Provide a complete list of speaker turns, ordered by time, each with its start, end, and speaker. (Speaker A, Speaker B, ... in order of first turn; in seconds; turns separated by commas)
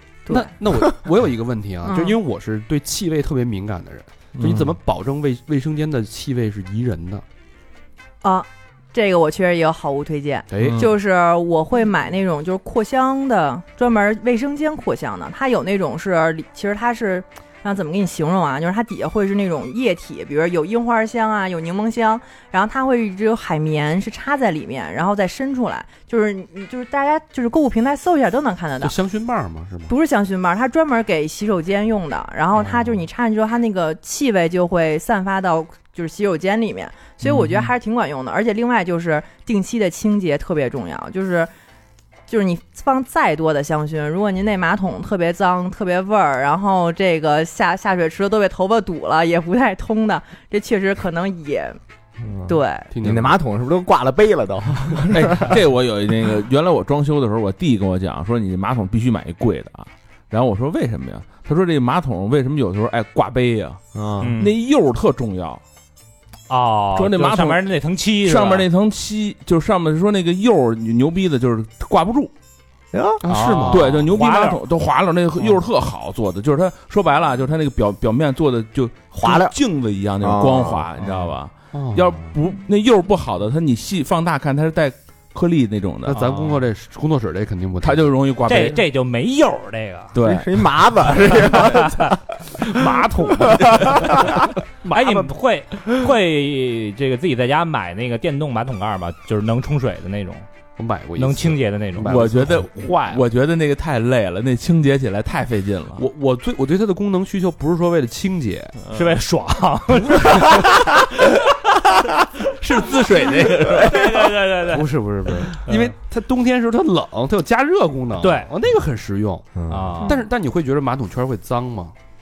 Speaker A: 0.3-0.5, Speaker B: 0.3-7.2, Speaker A: 1.8-2.2, Speaker C: 4.4-4.8, Speaker A: 8.2-28.9, Speaker B: 10.5-10.9, Speaker C: 10.6-10.9, Speaker B: 28.8-29.9, Speaker A: 29.9-41.5, Speaker A: 42.3-51.8, Speaker A: 52.4-52.9, Speaker B: 52.9-53.4, Speaker D: 53.0-55.5, Speaker C: 55.1-65.6, Speaker D: 63.9-64.3, Speaker E: 64.2-64.6, Speaker E: 66.5-68.7, Speaker C: 66.9-67.6, Speaker C: 68.2-72.3, Speaker D: 72.9-73.9, Speaker B: 73.2-74.0, Speaker C: 73.7-86.2, Speaker E: 74.0-74.6, Speaker D: 79.1-79.5, Speaker D: 80.2-80.8, Speaker B: 81.7-82.3, Speaker B: 86.1-88.1, Speaker E: 86.1-86.6, Speaker C: 87.8-88.8, Speaker E: 88.5-90.1, Speaker C: 90.1-90.6, Speaker D: 90.2-92.2, Speaker E: 91.3-100.5, Speaker D: 93.4-94.4, Speaker B: 94.9-95.3, Speaker B: 100.8-103.2, Speaker E: 101.2-102.1, Speaker C: 102.1-106.0, Speaker B: 106.0-108.8, Speaker C: 108.8-109.2, Speaker E: 108.9-110.9, Speaker C: 110.6-111.0, Speaker C: 112.5-114.3, Speaker E: 113.2-114.9, Speaker B: 114.6-121.9, Speaker E: 115.7-115.9, Speaker E: 118.2-118.5, Speaker D: 119.5-120.1, Speaker E: 119.7-120.2